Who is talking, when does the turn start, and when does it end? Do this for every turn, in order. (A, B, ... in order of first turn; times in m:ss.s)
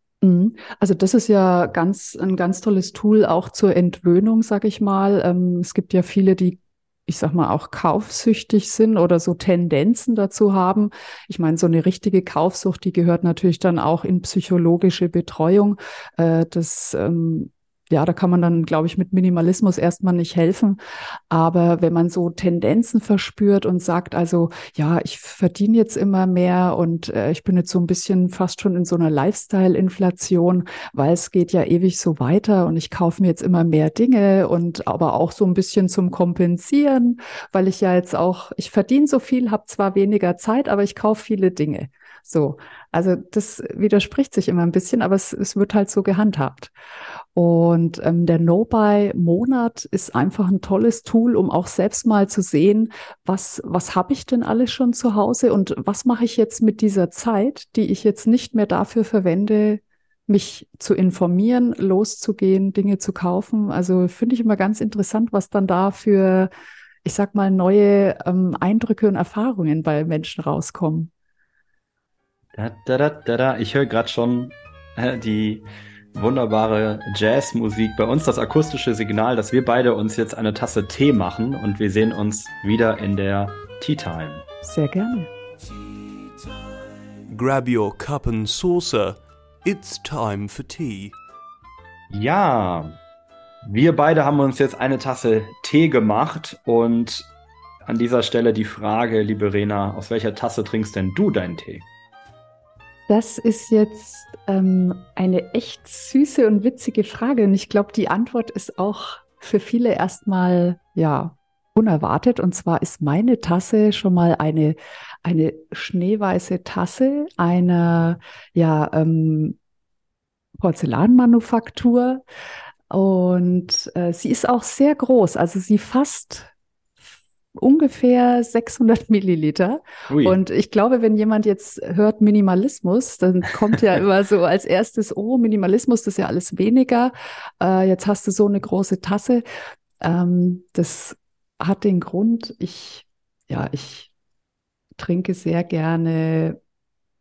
0:00.2-0:20.8 A
0:21.3-0:46.7 A
0:47.4-1:06.5 A
1:07.0-1:11.1 A
1:12.6-1:24.4 B
1:24.6-1:25.3 A
1:27.3-1:31.1 C
1:32.1-1:32.9 B
1:33.6-1:37.3 B
1:37.8-1:41.8 B
1:43.1-1:59.6 A
2:00.6-2:02.2 A
2:02.9-2:06.5 A
2:07.6-2:19.4 A
2:10.1-2:10.4 B
2:20.0-2:24.1 A
2:25.0-2:26.6 A